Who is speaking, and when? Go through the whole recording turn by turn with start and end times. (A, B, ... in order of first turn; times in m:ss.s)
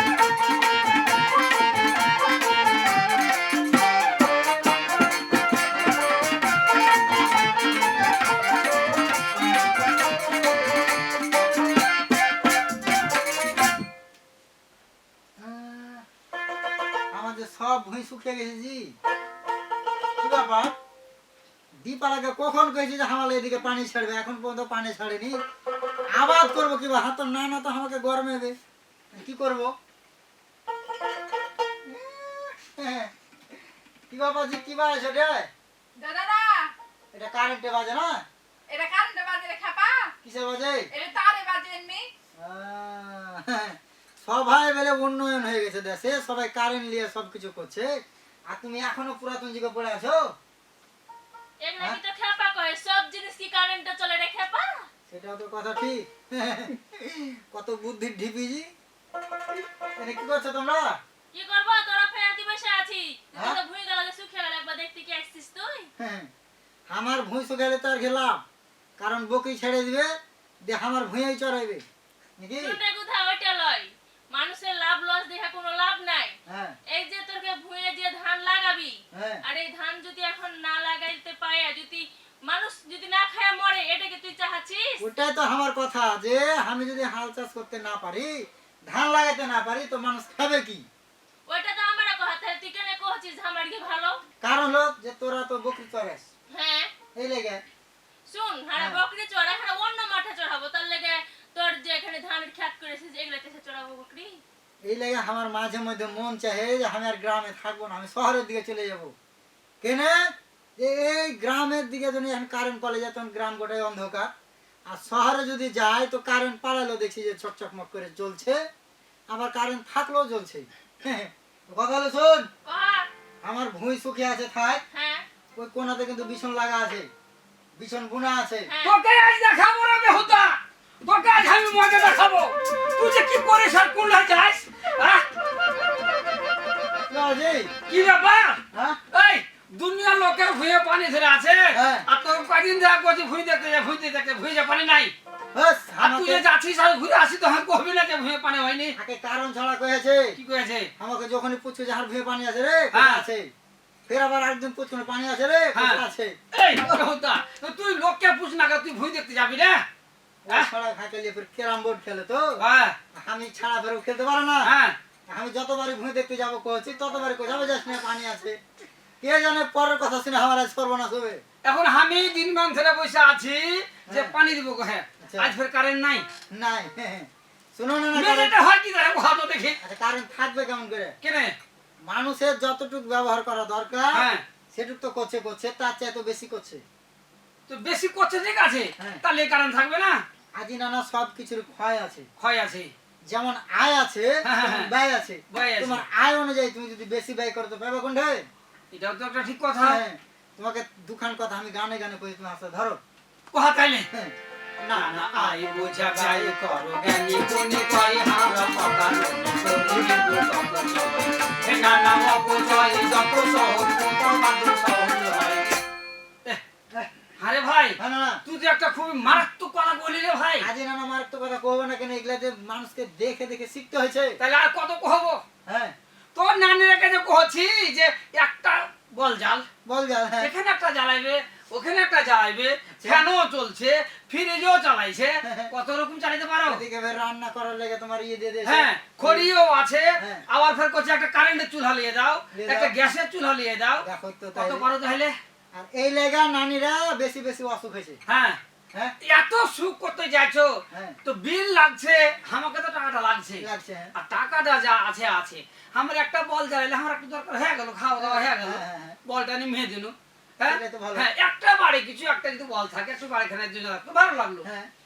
0:15.4-0:16.1 A
0:17.1-0:19.0 A
0:20.2-0:20.8 A
0:21.8-0:25.4 A
0:26.1-0:28.6 A
0:29.1-0:29.8 A
0:31.8-0:33.1 A
0:34.1-0:35.5 A
0:36.0-0:36.7 B
0:37.1-0:38.2 A
0:38.7-0:40.1 B
0:40.2-0:40.9 A
0:40.9-0:42.1 B
0:42.4-0:47.9 A
0:48.5-0:50.2 A
0:51.6-0:54.9 C
0:55.1-0:58.7 A
1:00.0-1:01.0 A
1:01.3-1:05.9 C
1:06.0-1:06.3 A
1:06.9-1:08.4 A
1:09.0-1:10.1 A
1:10.6-1:11.8 A
1:12.4-1:12.8 A
1:12.6-1:16.4 C
1:16.5-1:16.8 A
1:16.9-1:25.0 C
1:19.1-1:19.4 A
1:25.0-1:30.9 A
1:31.5-1:34.2 C
1:34.4-1:36.3 A
1:36.5-1:36.9 C
1:37.2-1:37.6 A
1:38.3-1:44.4 C
1:38.8-1:39.0 A
1:44.8-1:49.1 A
1:49.8-1:54.3 A
1:54.9-1:58.6 A
1:59.3-2:02.5 A
2:02.7-2:03.1 C
2:03.4-2:04.8 A
2:04.9-2:05.2 C
2:05.6-2:07.1 A
2:07.8-2:08.7 A
2:08.7-2:09.0 C
2:08.8-2:15.3 D
2:17.1-2:17.7 A
2:17.9-2:25.1 D
2:18.7-2:19.0 A
2:21.7-2:22.1 A
2:25.5-2:26.4 A
2:26.0-2:29.0 D
2:29.0-2:30.4 A
2:30.4-2:30.9 D
2:31.0-2:33.5 A
2:32.9-2:33.2 D
2:34.1-2:36.4 A
2:35.8-2:39.9 D
2:40.4-2:42.6 A
2:42.6-2:43.0 D
2:43.1-2:44.7 A
2:44.6-2:45.0 D
2:45.3-2:48.6 A
2:49.2-2:51.4 A
2:51.6-2:56.3 D
2:54.1-2:54.4 A
2:55.2-2:55.6 A
2:56.5-2:58.5 A
2:58.1-2:59.8 D
2:59.8-3:01.2 A
3:01.2-3:01.6 D
3:02.1-3:06.8 A
3:04.1-3:04.4 D
3:07.7-3:10.2 D
3:10.6-3:12.3 A
3:12.4-3:12.9 D
3:13.3-3:18.5 A
3:14.4-3:14.9 D
3:15.5-3:16.0 D
3:18.9-3:20.0 D
3:19.8-3:23.0 A
3:23.5-3:24.1 D
3:24.1-3:26.6 A
3:24.9-3:35.8 D
3:37.4-3:40.7 D
3:38.0-3:38.4 A
3:40.6-3:44.4 A
3:44.4-3:45.4 D
3:45.7-3:46.0 A
3:46.4-3:49.7 D
3:49.8-3:50.5 A
3:50.4-3:56.8 D
3:52.9-3:53.3 A
3:55.4-3:55.7 A
3:56.6-3:59.5 A
3:58.6-4:05.4 D
4:00.2-4:00.4 A
4:02.5-4:03.0 A
4:04.0-4:04.9 A
4:05.7-4:08.2 A
4:08.3-4:08.6 D
4:09.2-4:24.7 D
4:10.9-4:11.2 A
4:13.6-4:14.1 A
4:18.2-4:19.2 A
4:20.6-4:21.3 A
4:24.6-4:24.9 A